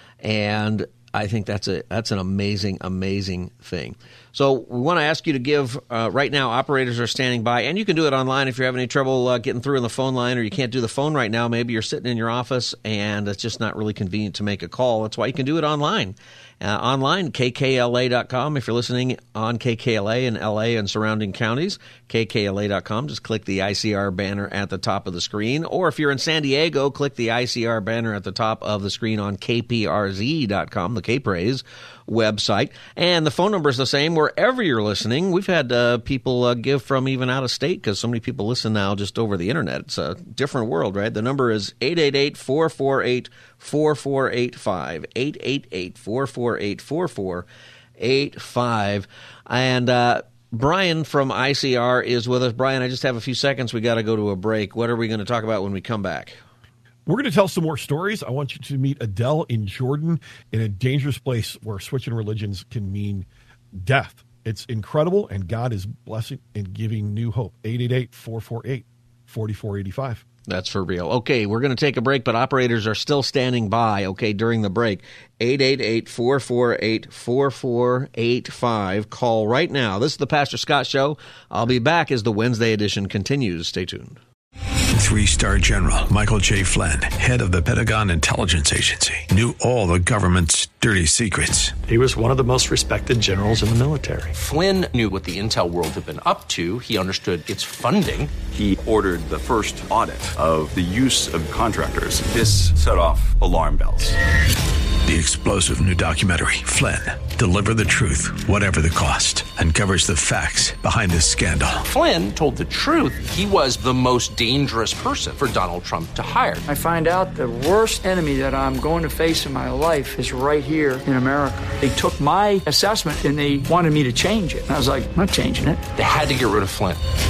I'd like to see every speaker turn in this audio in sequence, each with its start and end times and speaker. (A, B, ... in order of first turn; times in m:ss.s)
0:00.2-0:47.5 A
0:48.0-0:56.4 A
0:57.1-1:10.2 B
1:10.5-1:24.2 A
1:24.9-1:31.8 C
1:31.8-1:34.3 D
1:34.3-1:38.4 E
1:38.4-1:44.2 F
1:45.0-1:51.8 C
1:51.9-1:56.6 E
1:56.7-2:05.9 G
2:06.0-2:07.0 E